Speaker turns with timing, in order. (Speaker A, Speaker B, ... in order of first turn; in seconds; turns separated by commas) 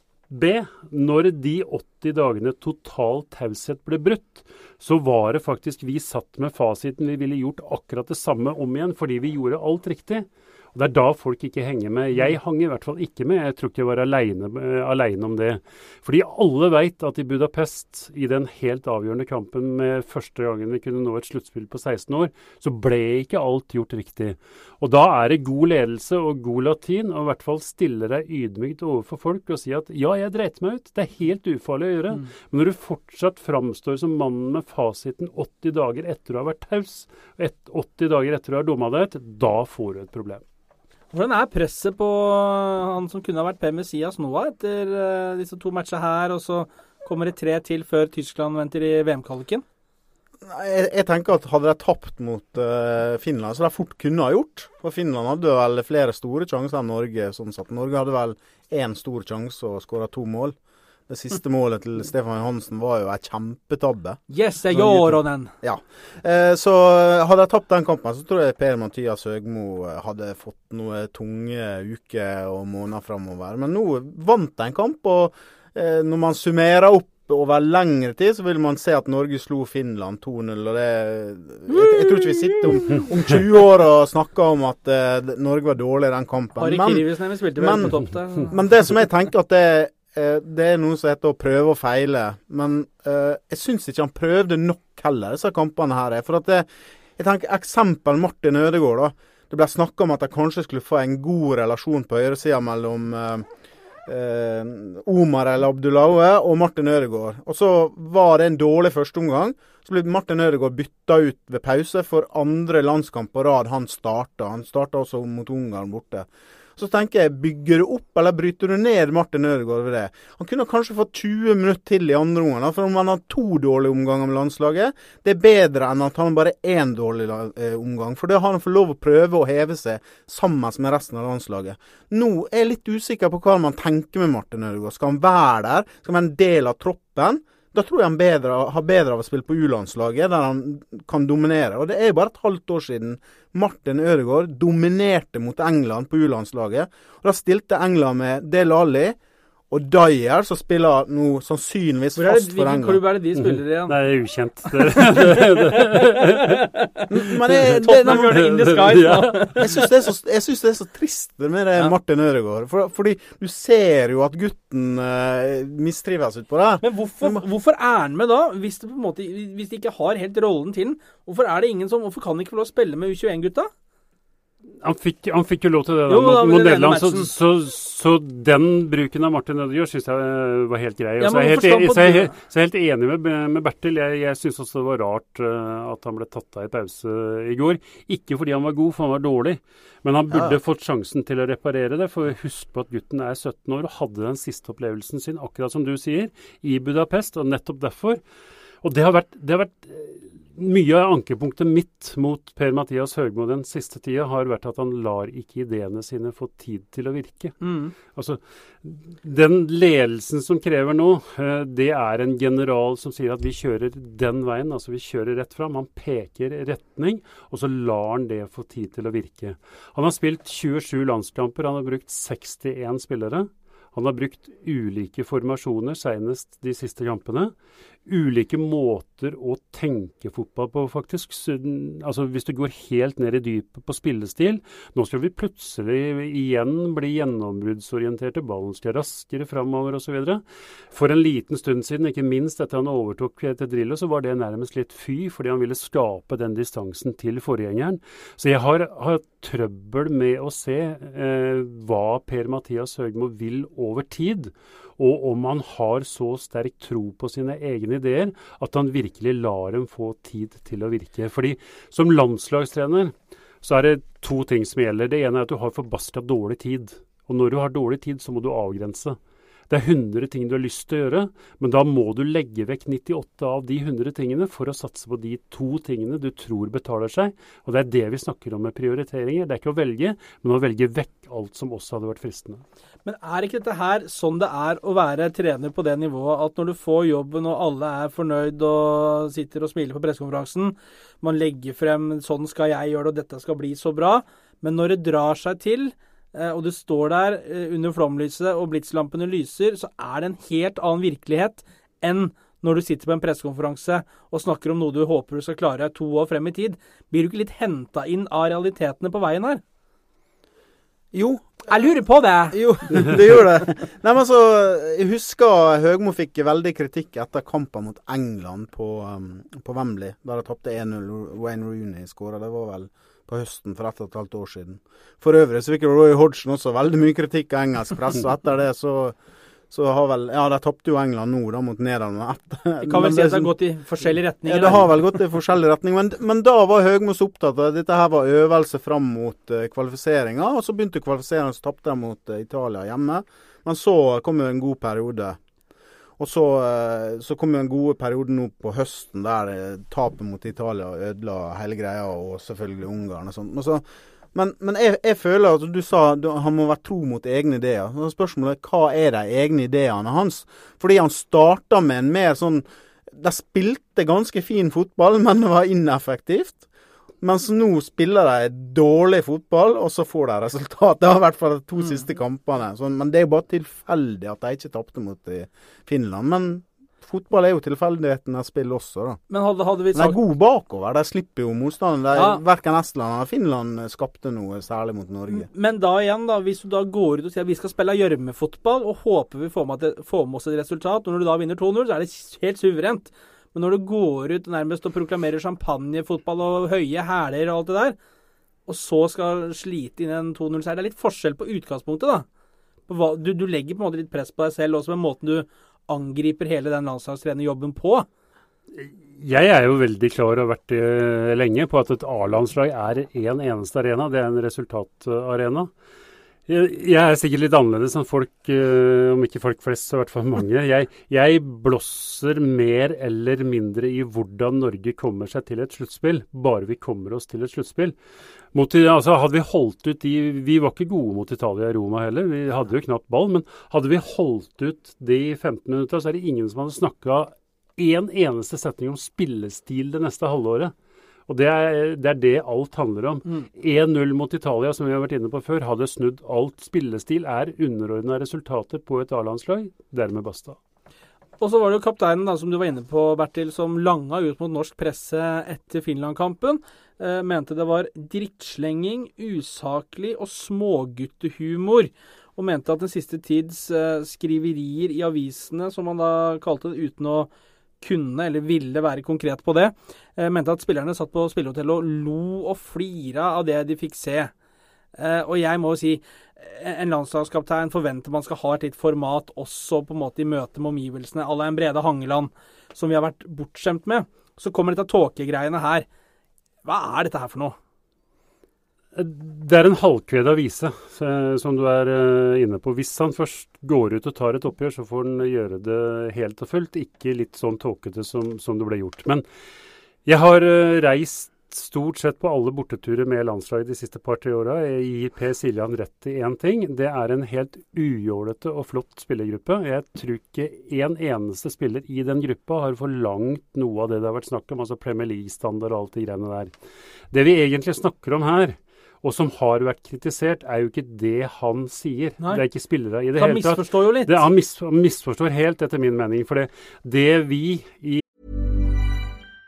Speaker A: 0.3-40.4, Speaker B: 41.1-49.6, Speaker C: 50.4-60.5, Speaker C: 61.1-64.2, Speaker B: 64.3-65.5, Speaker C: 64.7-65.1, Speaker C: 65.6-103.5, Speaker B: 81.7-83.1, Speaker B: 86.6-88.6, Speaker C: 104.0-149.2, Speaker C: 149.7-153.0, Speaker B: 152.2-153.9, Speaker A: 153.4-156.6, Speaker B: 154.7-157.0, Speaker C: 157.1-158.4, Speaker B: 157.6-159.9, Speaker A: 157.6-159.5, Speaker C: 159.6-167.4, Speaker B: 166.8-173.7, Speaker A: 174.8-198.2, Speaker B: 176.1-177.3, Speaker B: 181.2-182.3, Speaker A: 198.8-207.6, Speaker B: 207.6-207.9, Speaker A: 208.1-227.5, Speaker A: 228.1-269.2, Speaker A: 269.7-282.6, Speaker B: 283.0-309.6, Speaker C: 311.1-311.6, Speaker B: 311.7-313.1, Speaker C: 312.5-329.1, Speaker C: 329.7-333.5, Speaker B: 332.8-335.0, Speaker C: 334.4-345.4, Speaker C: 346.2-366.7, Speaker C: 367.2-379.2, Speaker B: 379.3-380.2, Speaker C: 379.9-385.5, Speaker B: 382.1-382.4, Speaker B: 385.3-398.0, Speaker B: 398.7-402.2, Speaker B: 402.9-408.1, Speaker A: 408.8-415.7, Speaker A: 416.5-427.9, Speaker A: 428.5-440.7, Speaker A: 441.3-450.6, Speaker B: 451.4-474.3, Speaker B: 475.0-485.9, Speaker B: 486.6-487.6, Speaker A: 488.9-499.2, Speaker A: 500.0-516.5, Speaker A: 517.1-528.0, Speaker B: 523.2-524.2